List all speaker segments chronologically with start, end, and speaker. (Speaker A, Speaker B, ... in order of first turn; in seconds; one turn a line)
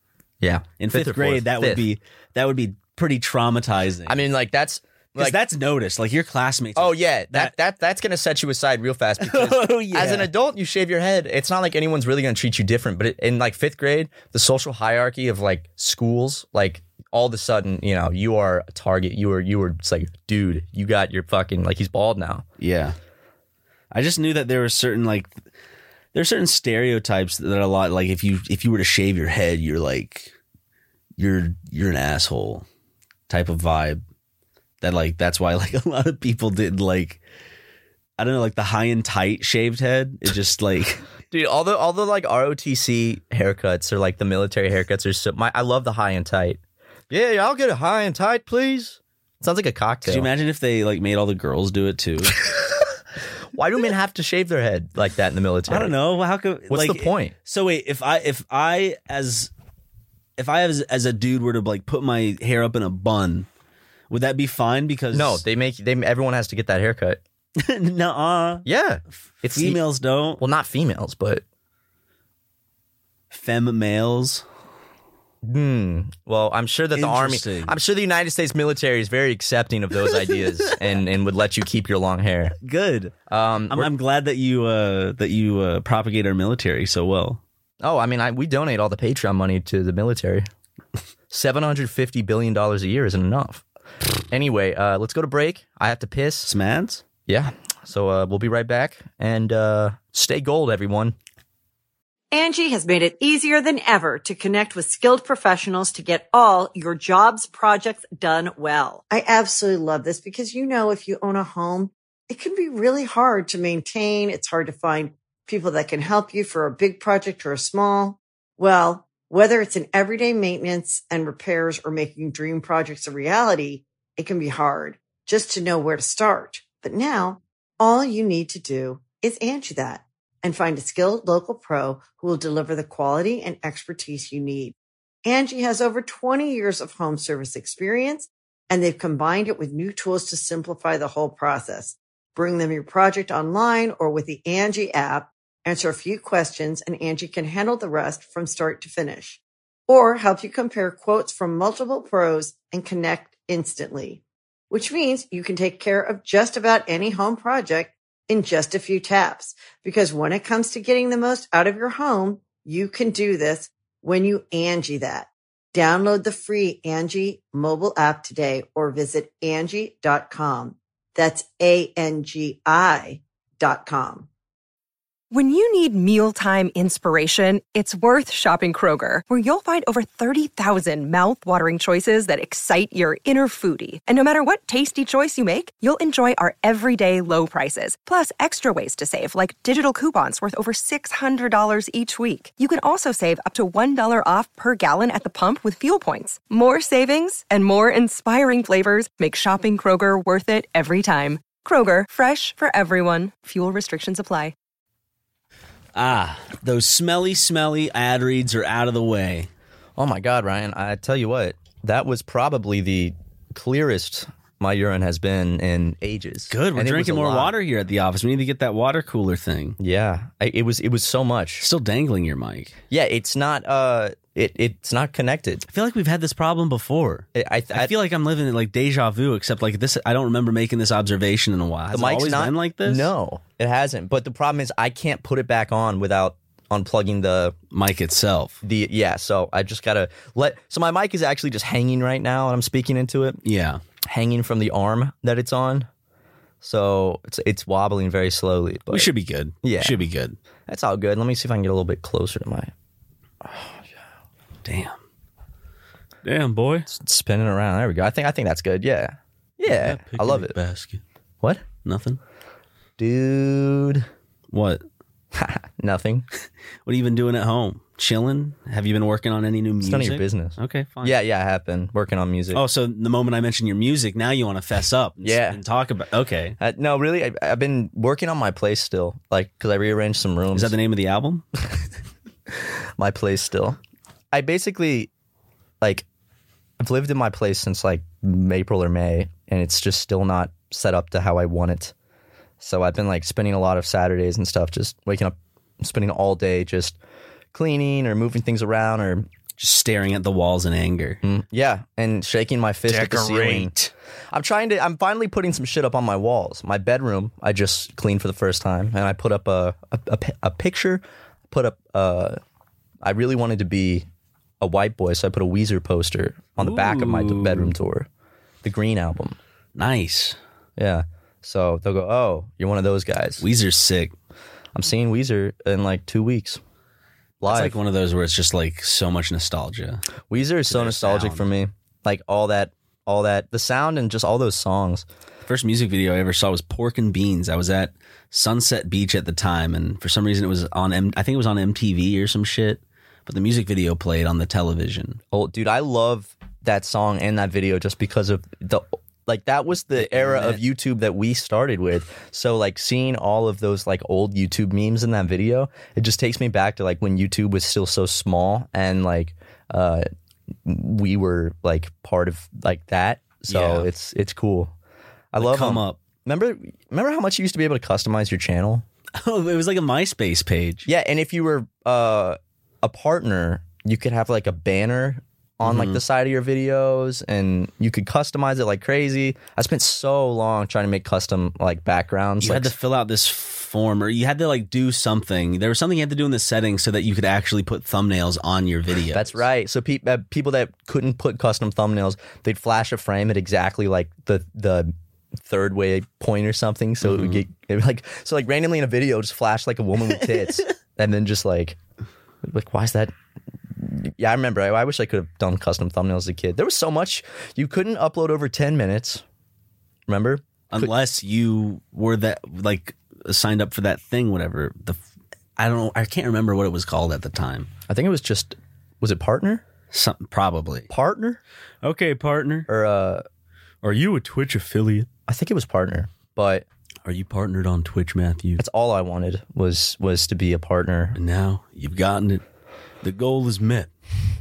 Speaker A: 0.4-1.9
Speaker B: 0.8-4.2
Speaker A: 4.1-5.4
Speaker B: 5.2-7.5
Speaker A: 6.8-22.4
Speaker B: 9.2-10.3
Speaker B: 22.6-22.9
Speaker B: 23.9-25.4
Speaker B: 26.1-30.4
Speaker B: 31.2-32.6
Speaker B: 33.3-34.0
Speaker B: 34.8-37.2
Speaker B: 38.2-41.1
Speaker A: 41.3-50.3
Speaker B: 50.0-52.4
Speaker A: 53.5-55.9
Speaker B: 55.7-59.5
Speaker A: 56.7-57.3
Speaker B: 60.4-63.5
Speaker B: 64.1-65.4
Speaker A: 65.1-67.2
Speaker B: 67.6-68.7
Speaker A: 68.7-69.8
Speaker B: 69.4-70.4
Speaker A: 70.4-71.4
Speaker B: 73.3-74.4
Speaker A: 75.4-82.6
Speaker B: 76.9-77.8
Speaker B: 82.6-83.1
Speaker A: 83.3-83.9
Speaker B: 83.7-87.4
Speaker A: 87.8-90.5
Speaker A: 91.3-93.6
Speaker A: 94.3-96.5
Speaker B: 96.5-97.0
Speaker A: 97.3-101.2
Speaker C: 102.3-174.3
Speaker D: 175.3-204.5
Speaker B: 205.9-209.5
Speaker A: 210.0-217.5
Speaker B: 216.5-219.8
Speaker A: 219.8-221.7
Speaker B: 221.6-222.8
Speaker A: 222.9-225.7
Speaker B: 225.7-233.1
Speaker A: 227.3-227.9
Speaker A: 231.9-237.6
Speaker B: 237.7-238.6
Speaker A: 238.6-243.4
Speaker B: 243.4-243.8
Speaker A: 244.1-245.9
Speaker A: 246.6-249.1
Speaker B: 248.9-250.4
Speaker A: 249.6-250.0
Speaker A: 250.7-252.7
Speaker B: 254.6-254.9
Speaker B: 256.2-256.9
Speaker A: 256.9-260.6
Speaker B: 259.7-261.0
Speaker B: 261.8-262.2
Speaker A: 263.0-264.1
Speaker B: 264.5-264.8
Speaker A: 265.3-266.3
Speaker B: 266.9-271.2
Speaker A: 269.8-272.6
Speaker B: 272.5-276.6
Speaker A: 275.2-275.6
Speaker A: 276.6-280.8
Speaker B: 280.5-281.4
Speaker A: 283.0-283.8
Speaker A: 284.3-285.1
Speaker A: 285.8-286.1
Speaker A: 286.8-291.9
Speaker A: 292.6-297.0
Speaker A: 297.5-299.3
Speaker B: 299.6-301.2
Speaker A: 301.2-303.7
Speaker B: 302.9-303.9
Speaker A: 304.3-312.4
Speaker A: 313.0-314.1
Speaker A: 314.6-318.1
Speaker B: 316.6-317.7
Speaker A: 318.6-319.4
Speaker B: 319.8-320.4
Speaker A: 320.8-323.4
Speaker B: 323.4-324.1
Speaker A: 324.8-326.6
Speaker A: 327.4-327.8
Speaker B: 327.4-330.0
Speaker A: 330.3-335.1
Speaker B: 330.7-331.5
Speaker B: 335.5-345.2
Speaker A: 345.3-360.0
Speaker B: 350.0-350.6
Speaker A: 360.6-364.7
Speaker B: 363.5-363.9
Speaker A: 365.3-368.9
Speaker B: 365.4-366.0
Speaker B: 369.2-370.9
Speaker A: 370.9-382.7
Speaker B: 375.6-376.0
Speaker B: 382.4-389.4
Speaker A: 389.1-401.8
Speaker B: 397.0-397.4
Speaker B: 400.3-400.7
Speaker A: 402.4-403.1
Speaker A: 403.8-409.2
Speaker A: 410.1-410.9
Speaker B: 410.7-415.0
Speaker B: 415.6-417.7
Speaker A: 417.9-419.6
Speaker B: 419.9-420.9
Speaker A: 420.9-421.4
Speaker B: 421.8-422.7
Speaker A: 422.7-423.2
Speaker B: 423.8-425.1
Speaker A: 425.3-426.6
Speaker B: 427.0-428.6
Speaker A: 428.6-431.2
Speaker B: 431.1-432.4
Speaker B: 433.0-433.9